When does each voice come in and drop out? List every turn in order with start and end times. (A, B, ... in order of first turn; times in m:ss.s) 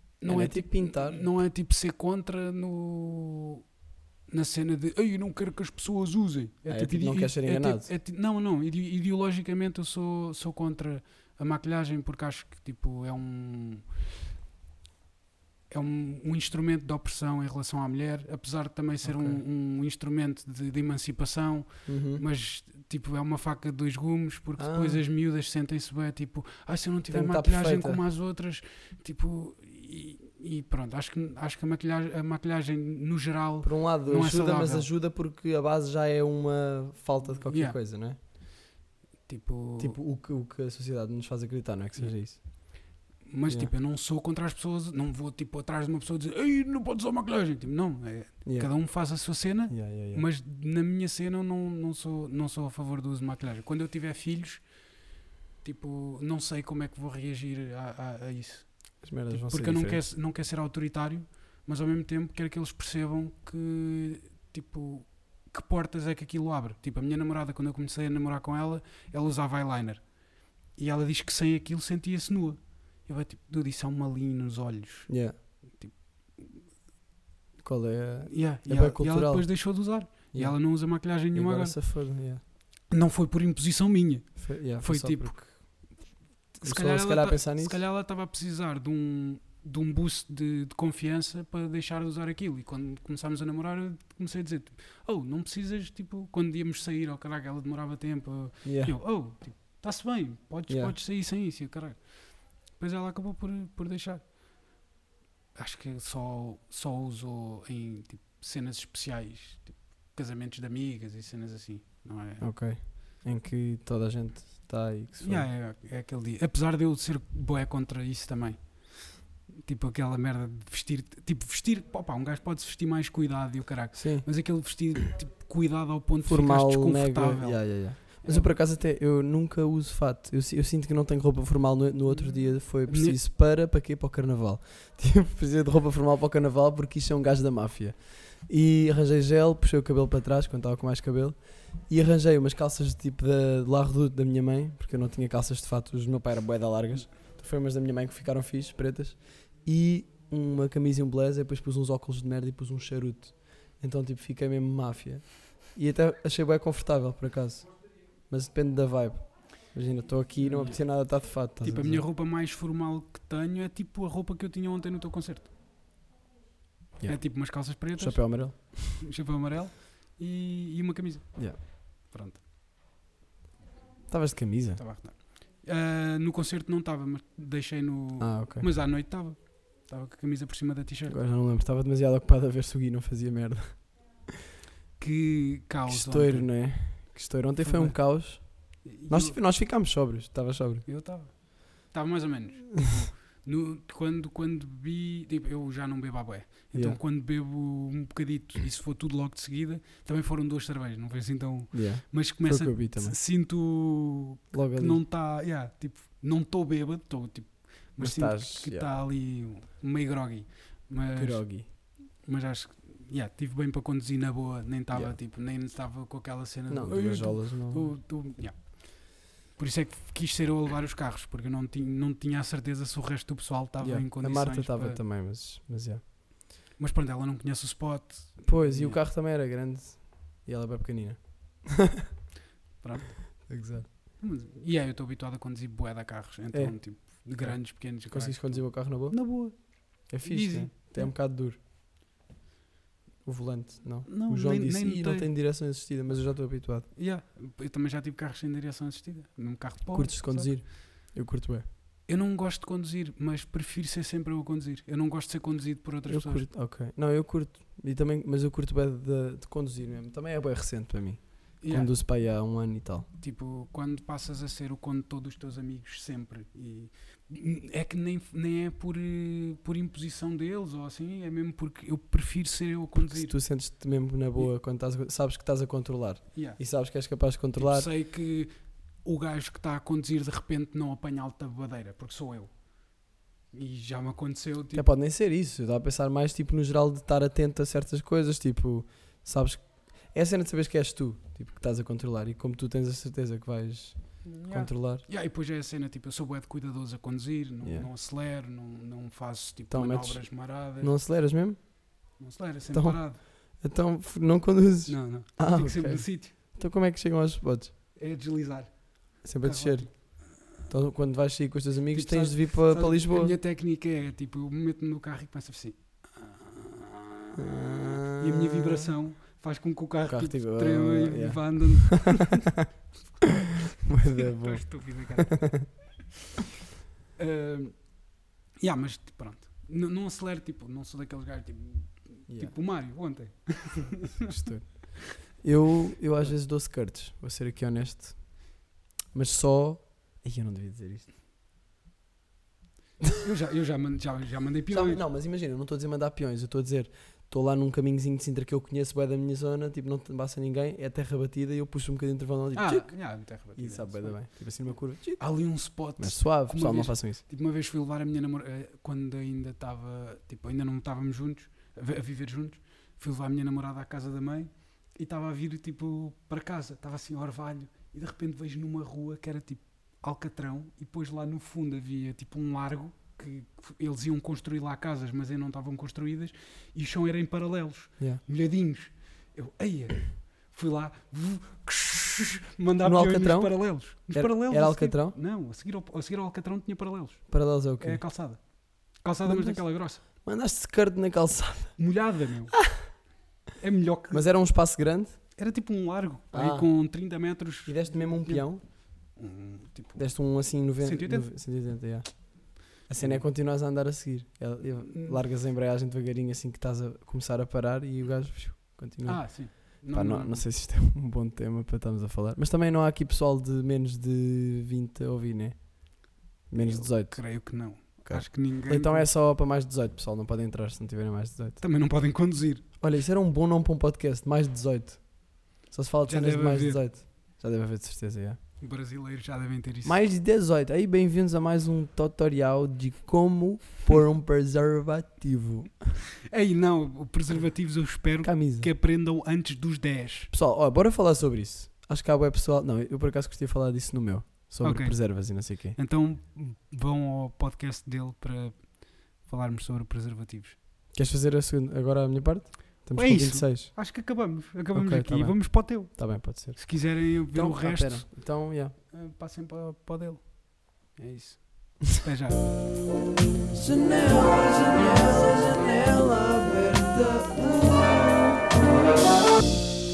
0:00.2-0:03.6 A
0:00.3-0:01.4 B
0:04.3-0:13.9 A
0:06.7-0:07.9 B
0:15.7-0:34.9 A
0:19.0-0:19.4 B
0:21.9-0:22.2 B
0:24.6-0:25.0 B
0:27.1-0:28.0 B
0:33.6-0:38.2 B
0:37.5-0:37.8 A
0:39.3-0:40.0 A
0:39.8-0:42.8 B
0:43.2-0:54.7 A
0:43.5-0:43.7 B
0:48.4-0:50.2 B
0:55.6-1:16.6 A
0:59.0-1:00.0 B
1:15.1-1:15.4 B
1:17.6-1:22.4 B
1:18.3-1:21.8 A
1:22.9-1:25.9 A
1:24.4-1:26.1 B
1:26.5-1:44.4 A
1:26.6-1:27.8 B
1:38.6-1:39.0 B
1:40.7-1:41.0 B
1:45.6-1:52.5 A
1:52.4-1:55.5 B
1:55.2-2:08.5 A
2:03.9-2:04.3 B
2:06.2-2:42.1 B
2:12.9-2:13.2 A
2:40.4-2:45.5 A
2:47.0-2:49.0 B
2:47.0-2:52.4 A
2:54.1-2:54.8 B
2:54.8-3:01.2 A
2:58.2-2:58.7 B
3:01.1-3:04.2 B
3:05.0-3:07.0 A
3:05.9-3:10.9 B
3:07.6-3:09.4 A
3:10.9-3:45.0 A
3:16.7-3:17.0 B
3:21.7-3:23.2 B
3:24.5-3:25.0 B
3:28.0-3:28.9 B
3:31.2-3:31.7 B
3:36.7-3:38.0 B
3:43.8-3:46.0 B
3:46.8-3:49.0 A
3:48.4-3:52.1 B
3:52.8-3:53.6 A
3:53.5-3:53.9 B
3:54.2-4:01.2 A
3:56.5-4:01.6 B
4:03.2-4:06.9 B
4:04.1-4:05.3 A
4:06.9-4:10.6 A
4:09.9-4:11.6 B
4:12.1-4:16.5 A
4:16.1-4:23.1 B
4:21.6-4:21.9 A
4:23.2-4:33.4 A
4:33.0-4:37.9 B
4:36.3-4:36.6 A
4:37.6-4:42.6 A
4:43.5-4:44.9 A
4:44.7-4:55.1 B
4:54.2-5:00.9 A
4:57.6-4:57.9 B
4:59.7-5:01.8 B
5:02.2-5:03.2 A
5:02.7-5:07.8 B
5:04.9-5:06.4 A
5:08.0-5:10.2 A
5:09.2-5:13.4 B
5:11.9-5:17.4 A
5:17.4-5:18.9 B
5:18.2-5:22.5 A
5:20.0-5:22.2 B
5:23.2-5:25.8 A
5:23.8-5:25.7 B
5:27.2-5:28.1 A
5:28.6-5:34.7 A
5:32.3-5:32.6 B
5:34.3-5:38.6 B
5:39.1-5:41.1 B
5:43.2-5:45.0 A
5:44.7-5:57.2 B
5:52.5-5:54.2 A
5:55.2-6:30.0 A
6:22.8-6:25.2 B
6:27.3-6:28.0 B
6:29.2-6:31.9 B
6:31.8-6:32.8 A
6:33.6-6:34.3 A
6:34.1-6:35.3 B
6:35.4-6:41.3 A
6:36.3-6:36.7 B
6:37.6-6:38.6 B
6:40.0-7:01.6 B
6:42.9-6:43.2 A
6:44.9-6:45.2 A
6:49.0-6:50.4 A
6:56.6-6:59.1 A
7:01.6-7:02.7 A
7:02.8-7:08.4 B
7:06.1-7:06.8 A
7:08.6-7:10.0 A
7:09.8-7:16.0 B
7:16.3-7:20.3 A
7:18.2-7:18.7 B
7:20.3-7:25.8 B
7:24.6-7:30.6 A
7:30.9-7:33.8 B
7:32.9-7:42.4 A
7:34.7-7:38.8 B
7:43.5-7:48.8 B